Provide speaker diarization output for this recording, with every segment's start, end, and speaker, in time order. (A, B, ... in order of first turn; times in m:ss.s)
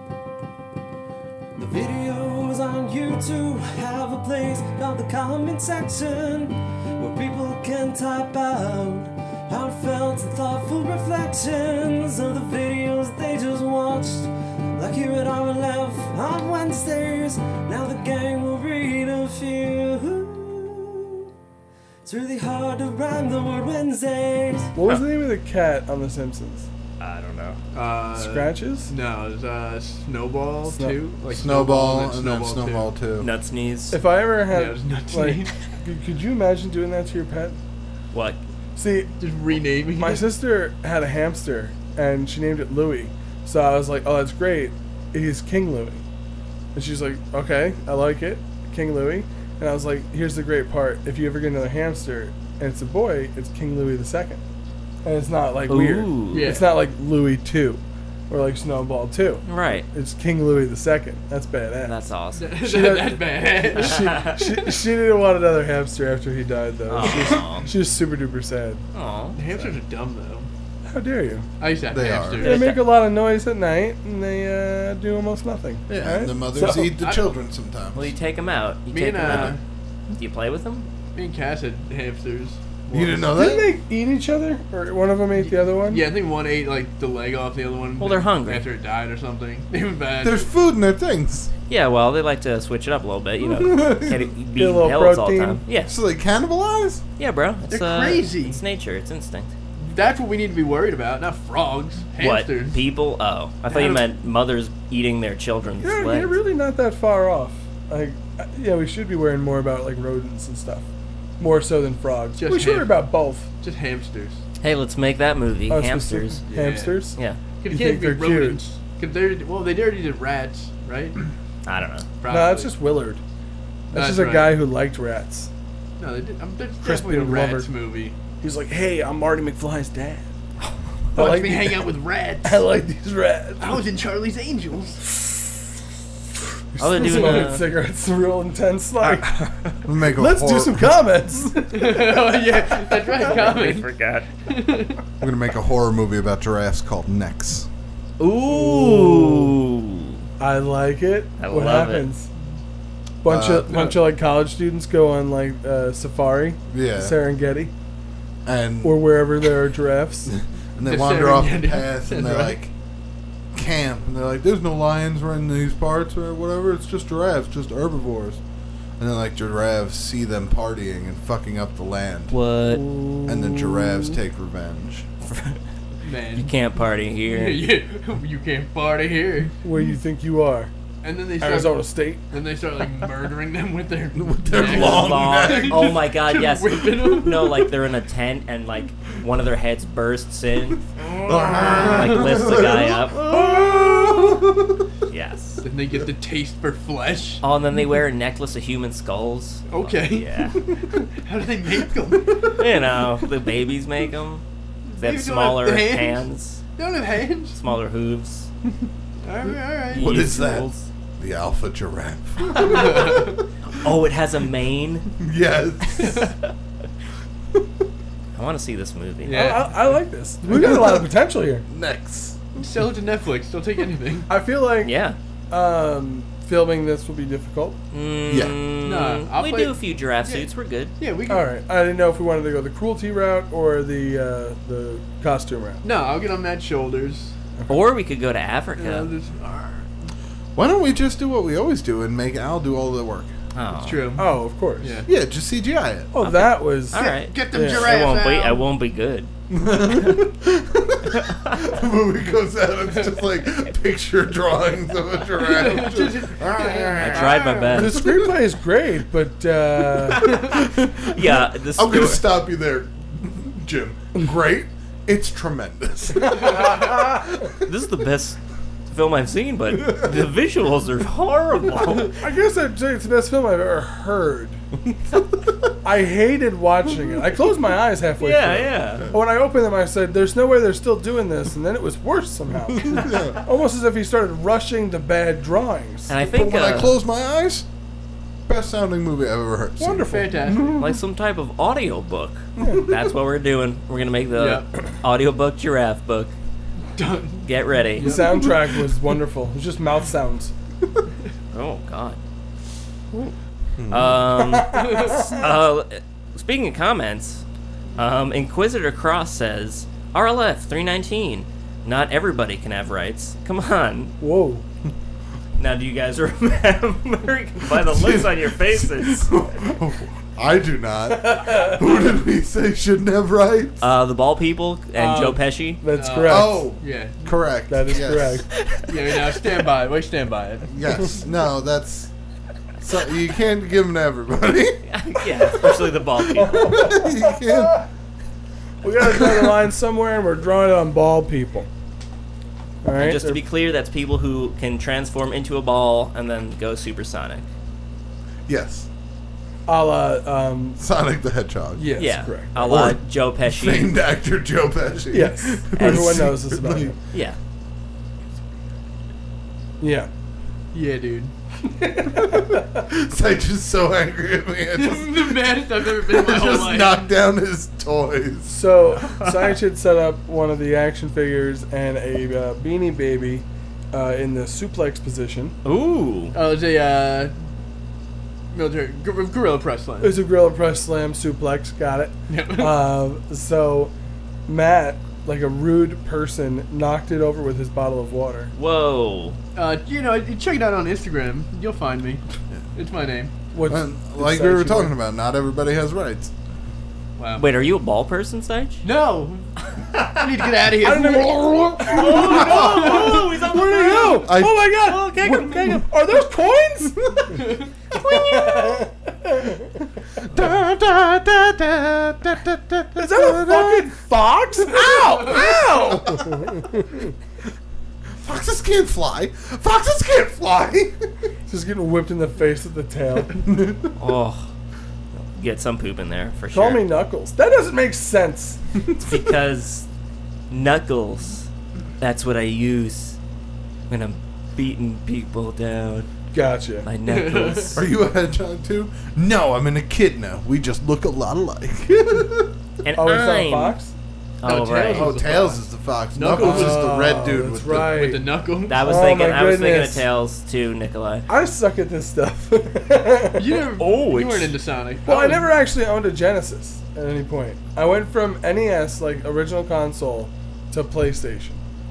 0:01.6-0:21.2 A
0:22.0-0:24.7 A
0:24.7-0:26.7 B
0:27.0-0:27.6 C
0:27.7-0:32.9 D
0:28.1-0:28.9 B
0:30.7-0:31.0 B
0:31.3-0:33.3 E
0:33.2-0:34.0 C
0:33.9-0:37.6 B
0:34.5-0:35.5 D
0:38.1-0:38.4 C
0:38.8-0:39.1 B
0:39.2-0:40.3 D
0:40.0-0:46.0 B
0:46.7-0:54.4 B
0:55.0-1:01.9 B
0:55.7-0:56.6 C
0:56.3-0:56.6 D
0:59.4-0:59.8 C
1:01.8-1:02.5 C
1:02.4-1:04.4 D
1:02.6-1:08.8 B
1:03.8-1:04.1 C
1:06.9-1:07.7 C
1:08.9-1:09.4 C
1:09.3-1:10.5 D
1:10.8-1:11.5 B
1:11.6-1:12.7 D
1:11.9-1:12.5 E
1:12.4-1:17.0 B
1:12.4-1:13.0 C
1:15.9-1:18.1 E
1:17.0-1:17.3 D
1:17.9-1:19.6 C
1:18.9-1:19.6 D
1:19.2-1:19.5 E
1:20.2-1:20.9 C
1:21.1-1:23.3 D
1:22.9-1:23.7 E
1:23.3-1:26.0 B
1:25.4-1:30.5 D
1:28.0-1:28.6 C
1:30.2-1:31.5 E
1:31.7-1:35.9 C
1:33.4-1:34.3 E
1:34.6-1:35.6 B
1:35.9-1:37.0 E
1:37.2-1:39.5 C
1:37.7-1:38.6 D
1:39.8-1:42.8 D
1:42.2-1:46.3 C
1:43.7-1:44.0 D
1:45.8-1:50.8 B
1:51.4-1:53.5 B
1:52.4-1:53.0 D
1:53.6-1:54.4 D
1:54.6-1:56.4 C
1:55.7-1:58.6 B
1:56.5-1:57.0 D
1:57.6-2:01.2 D
2:01.6-2:02.1 C
2:02.2-2:02.7 D
2:02.3-2:03.2 B
2:03.9-2:04.6 D
2:03.9-2:05.5 B
2:06.0-2:08.1 D
2:06.8-2:07.7 B
2:08.4-2:10.2 B
2:11.1-2:12.6 D
2:11.1-2:13.8 B
2:13.6-2:15.0 D
2:16.7-2:19.4 B
2:16.8-2:17.6 C
2:19.8-2:21.0 E
2:20.1-2:22.1 B
2:21.7-2:23.9 D
2:22.9-2:24.3 C
2:24.4-2:25.0 D
2:25.2-2:27.7 E
2:28.2-2:30.2 C
2:28.4-2:29.5 B
2:30.4-2:32.3 B
2:31.4-2:32.1 C
2:33.2-2:37.7 B
2:33.2-2:33.9 E
2:36.7-2:37.1 E
2:38.4-2:39.4 E
2:38.8-2:40.3 B
2:40.2-2:42.7 E
2:40.8-2:42.6 D
2:43.5-2:48.4 E
2:49.0-2:52.3 E
2:52.3-2:52.9 C
2:52.7-2:54.1 B
2:53.2-2:55.1 E
2:55.2-2:55.6 C
2:56.0-2:56.5 D
2:56.3-2:57.6 C
2:57.2-2:59.5 D
2:59.6-3:00.7 B
3:01.0-3:07.7 D
3:01.4-3:02.2 B
3:04.1-3:06.0 E
3:04.5-3:10.8 C
3:11.0-3:14.8 E
3:11.6-3:13.2 C
3:15.1-3:15.6 C
3:15.6-3:17.4 D
3:17.4-3:20.6 C
3:19.7-3:22.9 D
3:22.6-3:24.4 C
3:24.9-3:26.2 D
3:25.0-3:26.6 C
3:26.8-3:27.6 D
3:27.5-3:28.5 C
3:29.2-3:30.3 D
3:29.9-3:30.8 C
3:29.9-3:33.4 E
3:32.5-3:33.0 C
3:32.6-3:33.4 D
3:33.6-3:35.2 C
3:35.2-3:36.3 E
3:36.0-3:36.3 C
3:38.3-3:39.6 C
3:39.2-3:41.0 D
3:39.3-3:41.6 B
3:40.5-3:41.0 E
3:41.7-3:42.6 E
3:42.6-3:44.3 D
3:44.3-3:44.9 B
3:44.8-3:45.2 C
3:45.5-3:47.8 B
3:47.9-3:50.9 C
3:48.3-3:48.6 E
3:48.8-3:50.5 D
3:51.0-3:51.5 D
3:51.3-3:55.8 B
3:55.8-3:57.3 D
3:57.7-3:59.1 C
3:58.8-4:00.1 D
4:00.6-4:03.3 E
4:03.5-4:04.1 C
4:03.7-4:05.1 D
4:04.2-4:05.0 B
4:05.1-4:06.1 E
4:06.1-4:07.9 B
4:06.2-4:09.3 C
4:06.9-4:08.6 D
4:09.5-4:18.4 E
4:11.2-4:11.6 C
4:15.3-4:17.8 D
4:17.0-4:18.0 C
4:17.7-4:20.2 B
4:20.2-4:27.5 E
4:20.2-4:22.2 C
4:26.2-4:27.4 B
4:27.6-4:28.4 C
4:28.9-4:32.2 C
4:32.2-4:34.6 B
4:35.8-4:46.1 B
4:38.2-4:39.1 C
4:42.8-4:43.4 E
4:46.1-4:47.0 C
4:46.2-4:47.6 E
4:48.5-4:50.2 E
4:49.8-4:50.8 B
4:50.0-4:50.8 D
4:50.7-4:56.3 C
4:52.6-4:52.9 B
4:54.3-4:54.7 D
4:56.9-4:58.6 D
4:57.4-4:58.4 C
4:58.0-5:00.5 B
5:01.5-5:02.2 C
5:03.8-5:04.2 E
5:03.9-5:07.4 C
5:04.5-5:05.4 B
5:04.7-5:05.3 D
5:08.0-5:14.1 C
5:14.2-5:14.6 B
5:15.6-5:19.4 C
5:17.7-5:23.8 E
5:21.1-5:22.1 B
5:23.8-5:25.8 C
5:25.0-5:26.7 B
5:26.0-5:27.3 D
5:26.2-5:28.4 E
5:27.7-5:28.4 B
5:28.7-5:29.3 C
5:28.9-5:30.7 D
5:30.7-5:32.1 E
5:32.8-5:37.8 E
5:34.9-5:36.8 C
5:36.4-5:37.8 B
5:38.8-5:41.7 B
5:39.0-5:39.5 E
5:42.8-5:43.4 B
5:43.0-5:47.4 C
5:48.5-5:48.9 E
5:49.7-5:50.8 B
5:50.8-5:51.9 E
5:51.8-5:52.8 B
5:52.0-5:53.9 C
5:52.6-5:56.9 E
5:55.1-5:57.0 B
5:55.8-5:56.3 C
5:57.1-5:57.4 C
5:59.8-6:00.1 B
6:00.7-6:01.3 D
6:01.7-6:02.8 B
6:02.1-6:08.6 E
6:04.7-6:07.1 D
6:08.5-6:15.5 B
6:09.0-6:09.5 C
6:15.6-6:16.4 C
6:16.3-6:17.3 D
6:18.5-6:20.2 D
6:20.0-6:23.9 B
6:22.3-6:22.8 D
6:24.5-6:28.5 B
6:28.5-6:29.4 C
6:29.5-6:32.2 D
6:32.7-6:33.3 D
6:33.5-6:34.9 B
6:33.7-6:36.3 E
6:37.2-6:37.5 D
6:37.4-6:38.8 C
6:38.8-6:39.5 D
6:39.8-6:40.3 C
6:40.1-6:43.2 D
6:40.8-6:47.4 B
6:41.8-6:45.8 C
6:42.1-6:43.1 E
6:44.2-6:44.7 E
6:47.3-6:47.7 D
6:47.9-6:48.8 C
6:48.0-6:49.8 B
6:50.2-6:53.9 E
6:53.0-6:57.1 B
6:54.7-6:56.6 E
6:58.1-7:01.0 E
7:01.5-7:03.4 B
7:03.4-7:03.9 E
7:04.0-7:04.5 C
7:05.1-7:06.8 C
7:06.5-7:08.6 B
7:08.7-7:09.3 E
7:09.1-7:09.9 C
7:10.5-7:11.5 C
7:12.0-7:13.2 C
7:13.9-7:16.1 C
7:16.3-7:16.9 B
7:16.8-7:17.8 C
7:17.0-7:17.8 D
7:17.8-7:22.5 E
7:22.8-7:23.8 C
7:22.9-7:23.9 B
7:24.4-7:25.1 C
7:24.4-7:27.2 D
7:24.9-7:28.0 E
7:26.4-7:28.3 B
7:27.7-7:29.3 D
7:28.7-7:31.2 C
7:28.8-7:30.0 B
7:31.3-7:33.5 B
7:33.4-7:35.5 D
7:33.8-7:34.6 C
7:35.0-7:41.6 B